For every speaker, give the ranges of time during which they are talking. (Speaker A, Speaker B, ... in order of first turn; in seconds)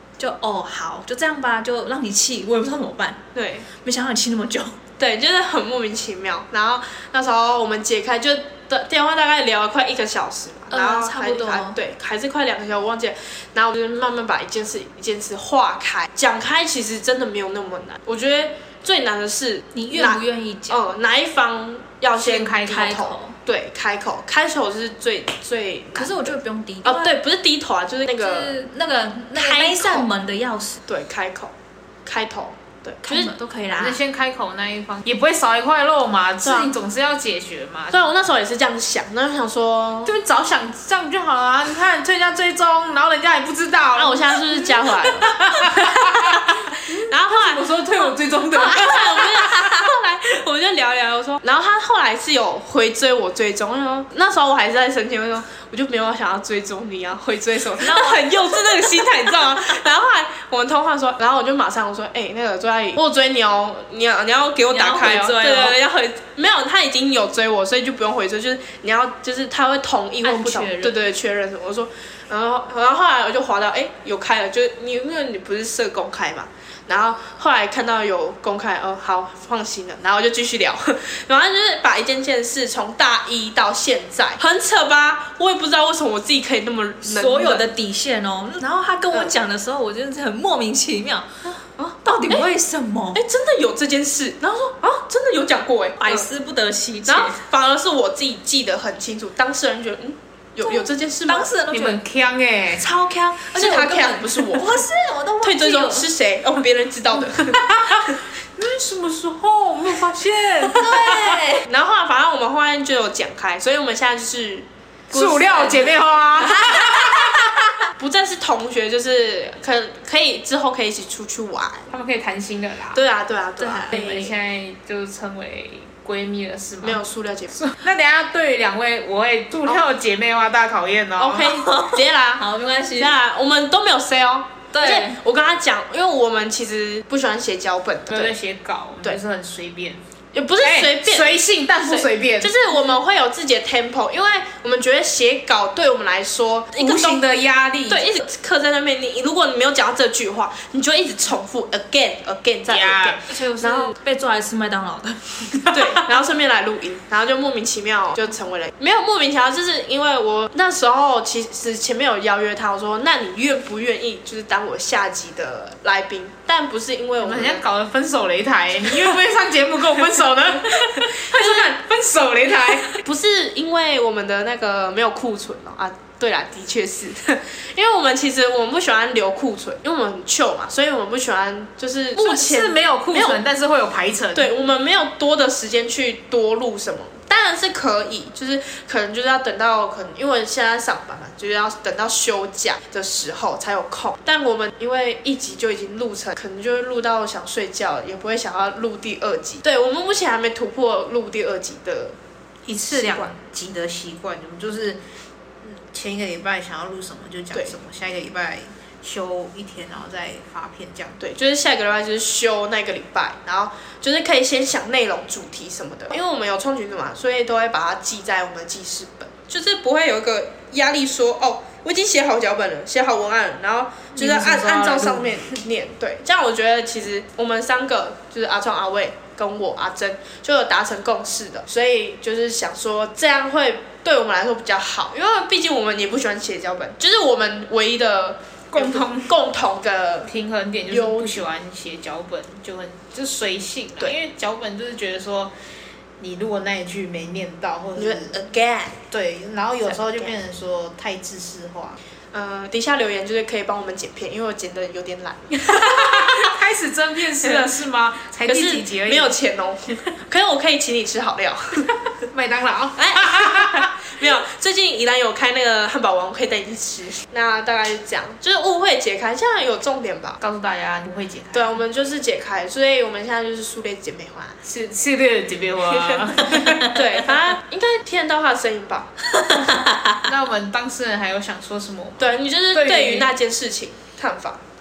Speaker A: 0.2-3.2, 3.7-4.7, 10.7-11.8, 19.7-20.8, 22.5-23.4, 25.9-27.1, 28.2-30.8, 33.0-34.0, 57.8-59.5, 64.7-65.8, 70.2-71.0, 87.0-91.3, 92.0-93.2, 96.0-97.4, 100.6-102.0, 102.8-106.1, 110.6-111.7, 115.1-115.9, 116.5-117.4, 123.6-124.1, 131.4-133.1, 134.7-135.2, 153.3-155.5, 279.5-279.8
Speaker B: 3.3-3.7, 5.0-28.6, 29.3-30.1, 30.9-31.5, 32.0-33.3, 36.4-36.7, 37.9-40.1, 43.9-46.4, 47.0-87.6, 91.4-92.5, 93.1-96.3, 97.1-101.5, 103.5-104.8, 105.4-108.2, 111.7-115.8, 118.0-121.9, 122.9-124.3, 126.8-127.5, 131.2-132.4, 132.9-138.3, 140.3-147.2, 147.9-153.9, 155.7-167.6, 171.3-171.7, 173.0-183.4, 184.3-202.2, 202.8-203.3, 211.2-240.3, 240.9-241.4, 247.9-249.0, 249.8-250.3, 252.3-256.5, 257.4-257.7, 258.4-261.9, 263.0-270.4, 271.5-274.6, 276.8-279.1, 282.2-284.6
Speaker C: 22.2-22.6, 33.7-38.0, 40.0-49.7, 101.7-102.8, 107.3-108.0, 108.5-111.4, 115.1-117.7, 121.9-123.0, 123.9-127.0, 127.5-131.5, 138.1-140.0, 140.6-142.5, 146.8-148.1, 152.7-153.2, 167.2-173.0, 182.2-184.5, 202.7-205.0, 205.6-211.2, 224.2-225.4, 238.7-239.3, 240.2-245.5, 246.2-248.3, 249.1-252.0, 255.7-259.3, 262.3-263.9, 270.4-271.8, 274.6-277.0, 280.2-283.3